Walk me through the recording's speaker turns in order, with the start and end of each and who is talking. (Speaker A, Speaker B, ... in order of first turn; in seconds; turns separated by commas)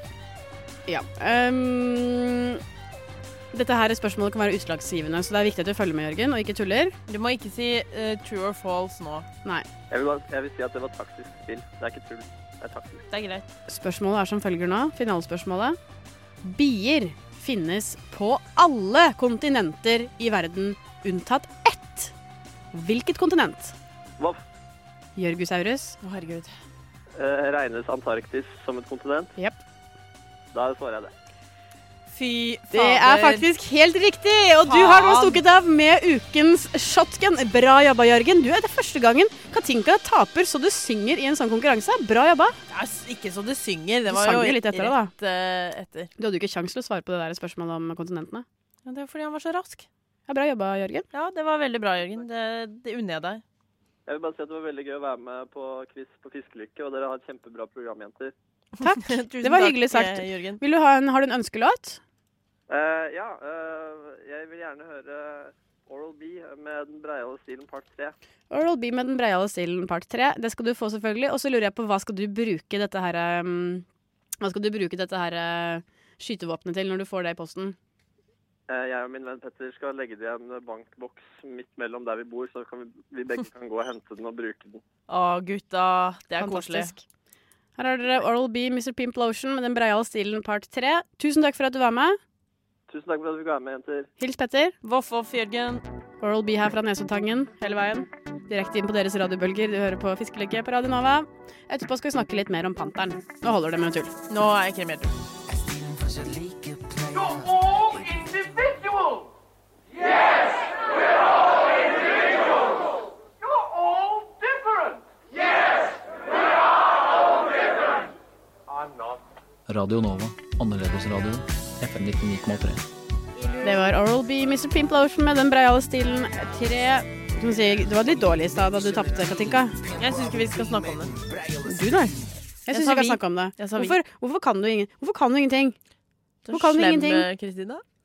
Speaker A: 0.9-2.6, Speaker A: 3.5-7.0, Speaker B: 7.1-9.3, Speaker C: 9.9-13.0, Speaker B: 13.1-13.5, Speaker A: 13.7-15.8, Speaker A: 16.4-22.1, Speaker A: 22.7-23.7, Speaker A: 25.1-26.0, Speaker B: 26.0-26.5, Speaker C: 27.2-29.3, Speaker C: 30.5-31.1, Speaker B: 32.1-33.5, Speaker A: 32.7-42.6, Speaker B: 34.6-35.4, Speaker B: 42.7-46.1, Speaker A: 44.0-45.1, Speaker A: 46.2-48.4, Speaker B: 48.8-49.9, Speaker A: 50.3-51.1, Speaker B: 51.1-53.4, Speaker C: 54.1-58.3, Speaker B: 58.8-60.6, Speaker A: 58.8-62.0, Speaker C: 62.7-68.1, Speaker A: 68.5-73.8, Speaker A: 74.4-77.8, Speaker C: 78.7-84.8, Speaker B: 85.1-86.9, Speaker A: 86.4-87.0, Speaker A: 87.8-92.2, Speaker C: 92.9-94.1, Speaker A: 94.2-94.7, Speaker B: 94.8-95.8, Speaker A: 96.2-104.1, Speaker B: 104.3-105.2, Speaker D: 119.7-122.8, Speaker A: 123.6-129.8, Speaker B: 129.9-131.2, Speaker A: 131.7-132.1, Speaker A: 132.7-135.8, Speaker B: 132.7-134.0, Speaker B: 136.4-137.8, Speaker A: 136.5-137.3